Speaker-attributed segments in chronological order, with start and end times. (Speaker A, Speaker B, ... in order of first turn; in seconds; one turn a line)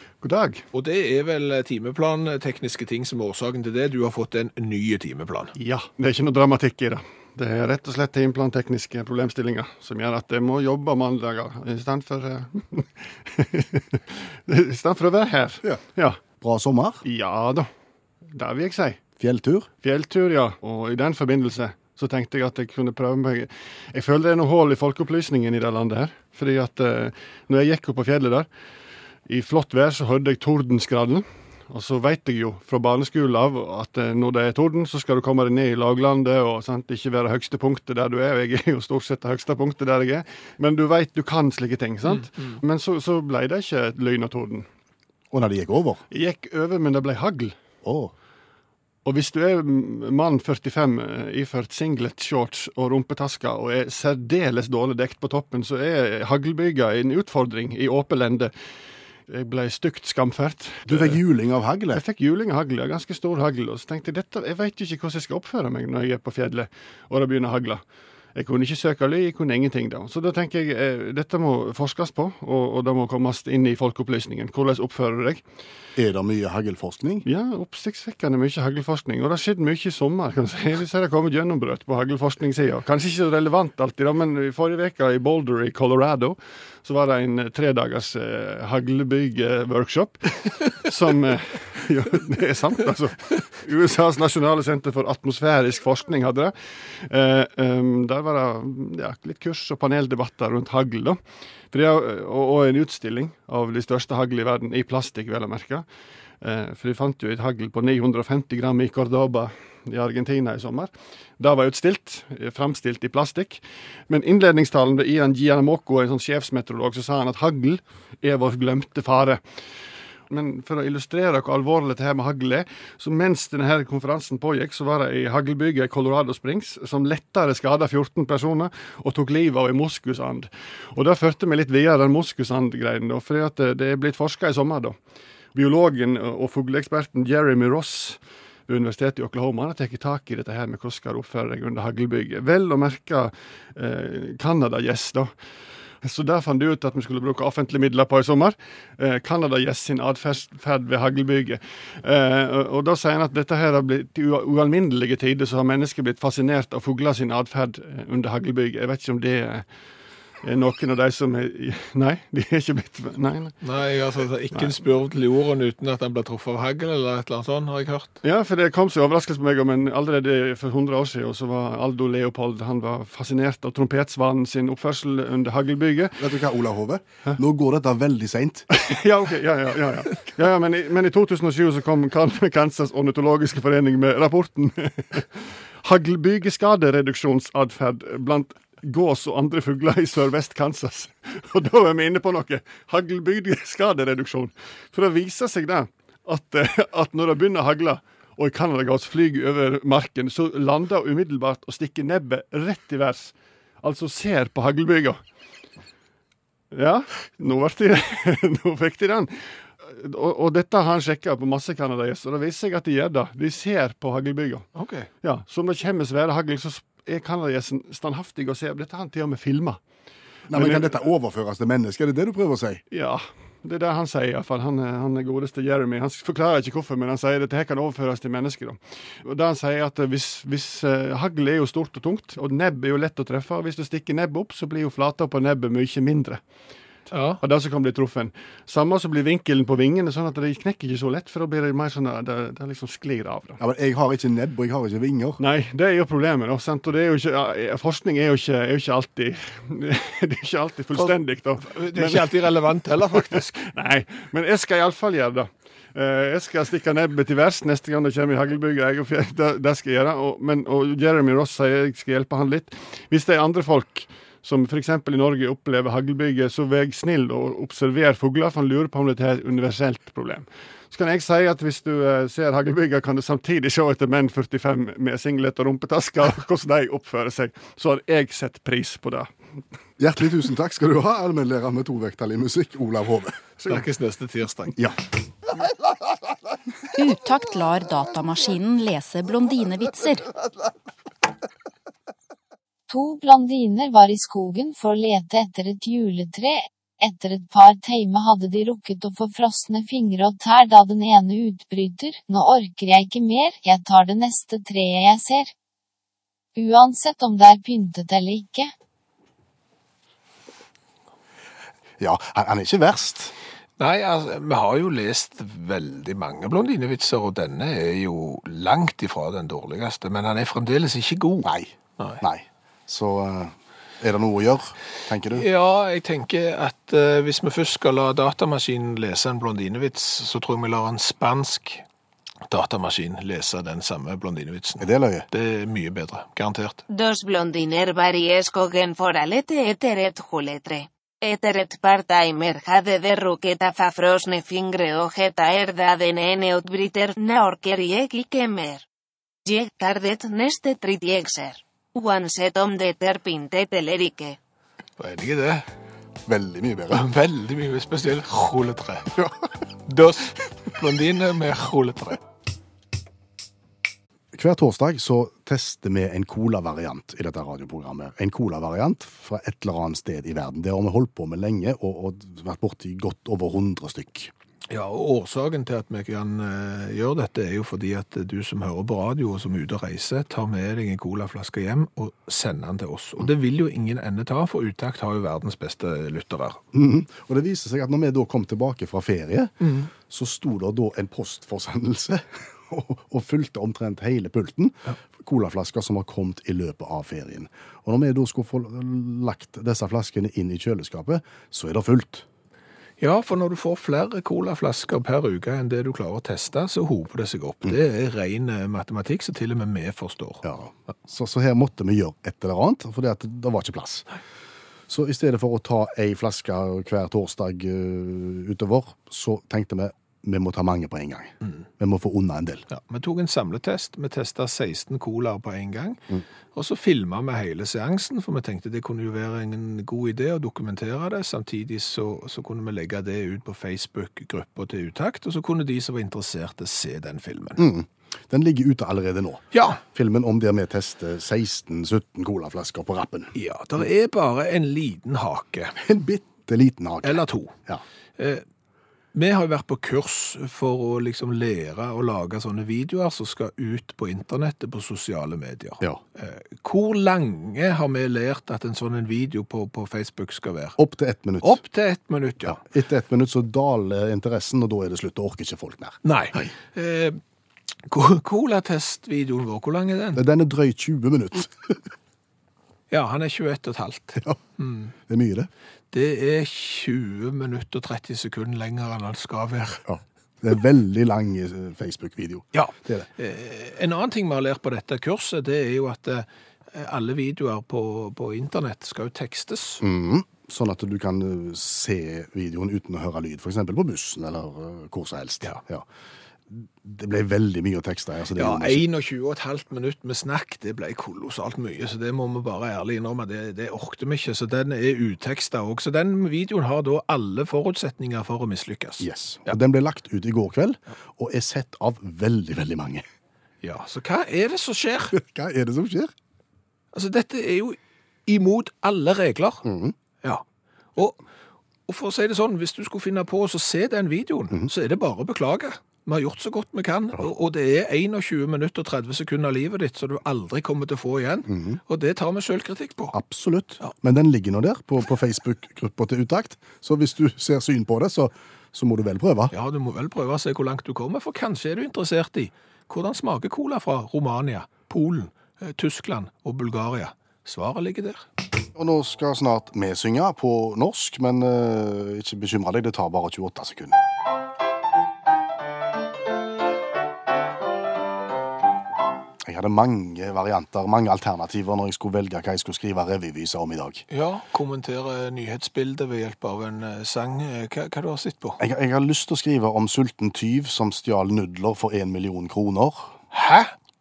Speaker A: 0.2-0.6
Speaker B: 0.7-5.5
Speaker A: 5.5-16.2
Speaker C: 16.4-17.0
Speaker A: 17.0-17.7
Speaker A: 18.3-19.0
Speaker C: 19.2-19.7
Speaker A: 19.8-28.5
Speaker A: 29.3-44.7
Speaker B: 42.1-42.6
Speaker C: 45.3-46.0
Speaker A: 46.1-47.6
Speaker C: 47.8-48.1
Speaker A: 49.0-58.5
Speaker A: 59.3-61.2
Speaker C: 60.9-62.0
Speaker A: 61.9-67.8
Speaker A: 68.3-75.4
Speaker C: 76.0-77.2
Speaker A: 77.2-101.2
Speaker A: 101.7-105.8
Speaker A: 106.4-119.4
Speaker A: 120.3-134.9
Speaker A: 135.5-145.3
Speaker A: 146.0-159.7
Speaker A: 160.4-163.6
Speaker B: 163.6-168.1
Speaker A: 168.2-176.2
Speaker C: 176.2-178.7
Speaker A: 178.7-205.2
Speaker A: 206.7-214.7
Speaker B: 214.8-215.1
Speaker A: 215.2-219.8
Speaker C: 220.5-222.8
Speaker A: 220.5-220.9
Speaker A: 222.9-236.4
Speaker B: 237.1-237.4
Speaker A: 237.4-243.6
Speaker C: 243.6-245.4
Speaker A: 245.4-252.3
Speaker B: 251.6-253.6
Speaker A: 253.3-279.3
Speaker C: 280.0-283.4
Speaker B: 283.6-284.8
Speaker D: 286.9-290.3
Speaker E: 292.9-305.5
Speaker E: 306.6-308.7
Speaker C: 312.0-313.3
Speaker B: 313.8-322.2
Speaker C: 321.4-325.5
Speaker B: 325.3-331.8
Speaker B: 332.5-336.8
Speaker C: 334.8-335.2
Speaker F: 336.9-348.8
Speaker F: 349.4-354.4
Speaker B: 355.0-355.6
Speaker C: 356.2-357.0
Speaker B: 356.9-359.1
Speaker B: 359.8-362.2
Speaker C: 364.3-374.3
Speaker B: 374.7-386.6
Speaker C: 386.7-402.2
Speaker B: 389.6-389.9
Speaker B: 403.0-410.4
Speaker C: 410.4-414.1
Speaker C: 414.9-422.6
Speaker B: 422.7-426.0
Speaker B: 426.5-437.6
Speaker C: 437.6-443.3
Speaker B: 439.5-439.8
Speaker B: 443.3-445.8
Speaker C: 445.8-447.8
Speaker B: 447.0-447.5
Speaker B: 448.2-448.4
Speaker B: 449.1-460.8
Speaker C: 460.8-461.6
Speaker B: 461.4-462.6
Speaker C: 462.4-466.0
Speaker B: 466.0-467.2
Speaker B: 467.9-470.2
Speaker C: 470.1-471.8
Speaker B: 472.9-474.9
Speaker C: 475.1-475.5
Speaker B: 475.9-479.8
Speaker C: 479.9-483.1
Speaker B: 482.5-489.8
Speaker C: 489.8-495.9
Speaker C: 496.5-498.8
Speaker B: 498.3-509.6
Speaker C: 509.0-513.0
Speaker B: 513.6-515.1
Speaker C: 515.1-516.1
Speaker B: 516.9-519.6
Speaker C: 519.6-519.9
Speaker B: 521.0-521.2
Speaker B: 521.9-533.1
Speaker C: 531.5-531.8
Speaker C: 533.1-539.5
Speaker B: 539.5-548.3
Speaker C: 548.7-554.0
Speaker C: 559.4-564.0
Speaker B: 564.1-568.6
Speaker C: 568.6-573.1
Speaker B: 573.3-573.7